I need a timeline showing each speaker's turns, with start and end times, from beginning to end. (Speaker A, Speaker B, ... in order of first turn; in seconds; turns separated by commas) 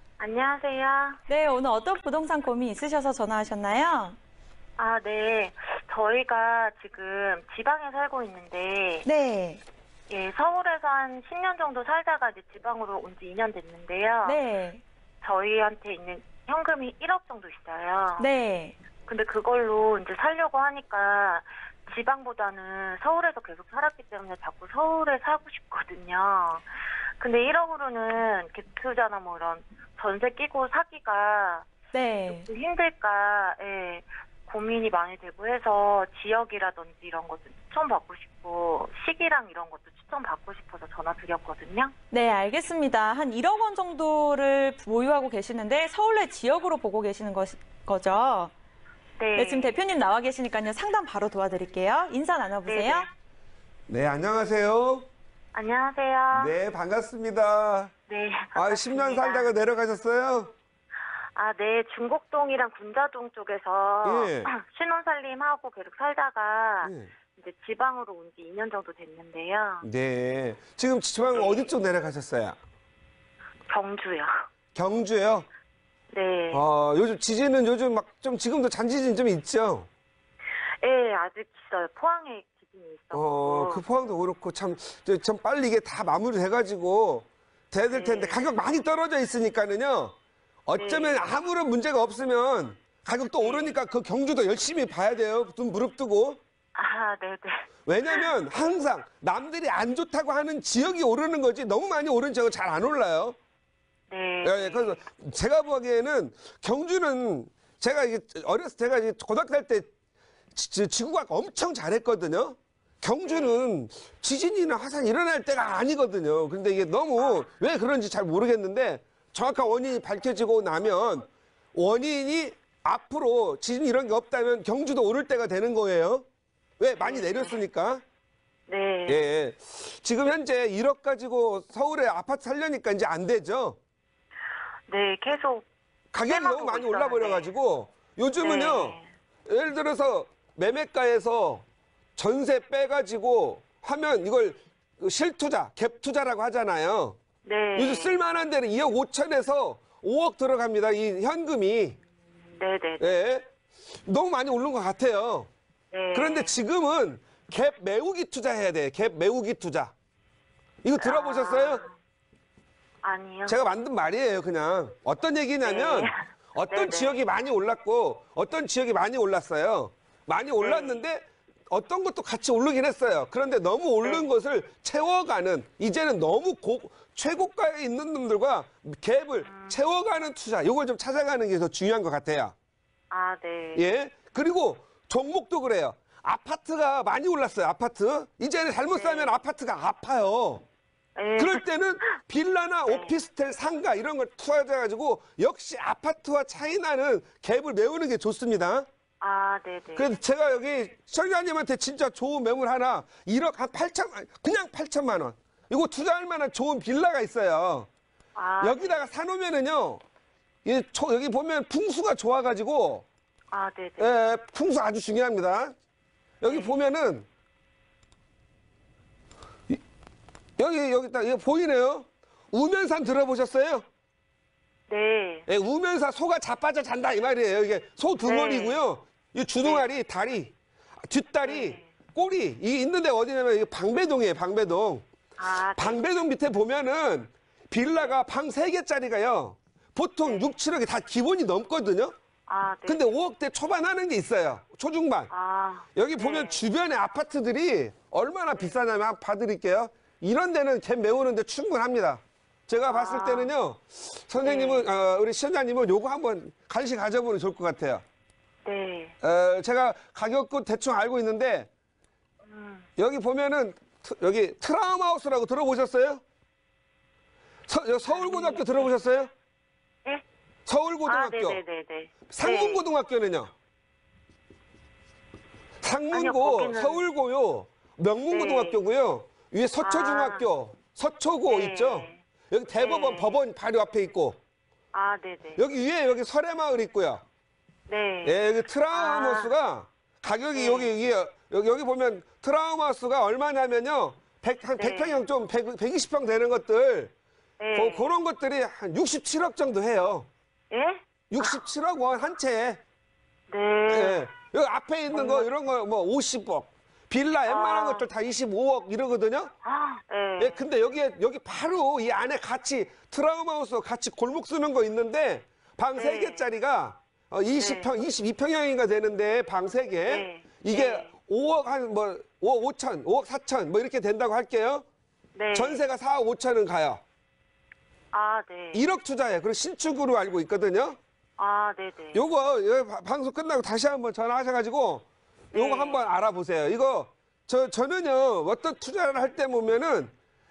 Speaker A: 0.2-1.2, Speaker B: 1.3-4.2, Speaker A: 4.8-9.1, Speaker B: 9.1-9.6, Speaker A: 10.1-14.4, Speaker B: 14.2-14.8, Speaker A: 15.2-18.3, Speaker B: 18.2-18.8, Speaker A: 19.1-26.7, Speaker A: 27.2-31.7, Speaker B: 31.9-32.5, Speaker A: 32.3-41.9, Speaker B: 42.1-48.5, Speaker A: 49.2-49.8, Speaker B: 49.4-53.1, Speaker A: 52.7-53.1, Speaker C: 53.9-55.1, Speaker A: 55.5-56.5, Speaker C: 56.3-57.9, Speaker A: 58.1-59.5, Speaker C: 58.5-60.5, Speaker A: 61.4-69.9, Speaker C: 64.0-64.5, Speaker C: 66.8-67.1, Speaker C: 69.8-72.6, Speaker A: 71.3-71.7, Speaker A: 73.7-74.3, Speaker C: 74.8-75.5, Speaker A: 76.1-76.6, Speaker C: 76.5-79.9, Speaker A: 80.8-83.8, Speaker C: 83.1-90.2, Speaker A: 87.9-88.5, Speaker C: 90.7-96.4, Speaker A: 90.7-91.3, Speaker A: 93.4-93.7, Speaker A: 96.8-98.3, Speaker C: 97.9-103.4, Speaker A: 104.1-105.0, Speaker C: 104.4-109.9, Speaker C: 110.5-126.2, Speaker A: 113.2-113.6, Speaker A: 117.2-117.5, Speaker C: 126.8-128.0, Speaker A: 127.0-127.6, Speaker A: 128.7-129.2, Speaker C: 129.1-133.8, Speaker A: 134.9-135.7, Speaker C: 136.1-139.0, Speaker A: 136.2-137.5, Speaker A: 138.4-139.1, Speaker C: 139.5-141.7, Speaker C: 142.2-147.2, Speaker A: 147.4-148.2, Speaker C: 147.8-152.0, Speaker A: 152.5-153.2, Speaker C: 153.0-153.4, Speaker C: 154.0-155.5, Speaker A: 155.9-156.5, Speaker C: 156.1-159.9, Speaker C: 160.8-161.8, Speaker A: 161.0-161.9, Speaker A: 163.0-163.6, Speaker C: 163.5-182.5, Speaker A: 165.6-167.2, Speaker A: 170.6-171.0, Speaker A: 174.0-174.3, Speaker A: 179.4-179.8, Speaker A: 183.1-183.9, Speaker C: 183.8-190.6, Speaker A: 188.9-189.4, Speaker A: 191.2-192.1, Speaker C: 191.4-198.9, Speaker A: 192.9-193.2, Speaker A: 199.2-200.2, Speaker C: 200.0-207.9, Speaker A: 208.3-209.2, Speaker C: 208.6-210.0, Speaker C: 210.7-213.1, Speaker A: 213.5-214.1, Speaker C: 214.0-215.7, Speaker C: 216.4-217.3, Speaker A: 216.4-216.8, Speaker C: 220.6-223.8, Speaker A: 224.9-225.5, Speaker C: 225.5-230.5, Speaker A: 228.2-228.8, Speaker A: 229.6-229.9, Speaker C: 231.1-235.1, Speaker A: 231.4-231.9, Speaker A: 235.4-236.0, Speaker C: 235.8-242.1, Speaker A: 240.2-240.6, Speaker A: 242.5-243.1, Speaker C: 242.9-245.3, Speaker A: 245.3-246.7, Speaker C: 246.0-258.0, Speaker A: 252.8-253.5, Speaker A: 254.4-254.9, Speaker A: 258.6-259.1, Speaker C: 259.2-261.7, Speaker A: 262.4-262.9, Speaker C: 263.0-266.2, Speaker C: 267.7-269.3, Speaker A: 268.1-268.9, Speaker C: 270.7-271.6, Speaker A: 271.1-272.9, Speaker C: 272.3-273.5, Speaker C: 275.8-284.4, Speaker A: 276.1-277.1, Speaker A: 278.3-278.8, Speaker A: 279.8-280.5, Speaker A: 281.4-282.2, Speaker A: 282.8-283.4, Speaker A: 284.9-285.6, Speaker C: 285.6-287.2, Speaker A: 287.9-288.4, Speaker C: 288.2-297.1, Speaker A: 288.9-289.5, Speaker A: 290.5-290.9, Speaker A: 294.8-295.3, Speaker A: 297.6-298.1, Speaker C: 297.7-300.3, Speaker A: 300.7-301.6, Speaker C: 301.3-302.8, Speaker A: 303.5-304.3, Speaker C: 303.9-309.5, Speaker A: 305.1-305.5, Speaker A: 307.4-308.1, Speaker A: 309.6-310.6, Speaker C: 310.4-324.9, Speaker A: 315.9-316.5, Speaker A: 317.6-317.9, Speaker A: 320.1-321.1, Speaker A: 325.4-325.9, Speaker C: 325.5-327.0, Speaker A: 328.1-328.9, Speaker C: 328.7-331.0, Speaker A: 331.4-332.2, Speaker C: 332.1-340.1, Speaker A: 335.5-336.1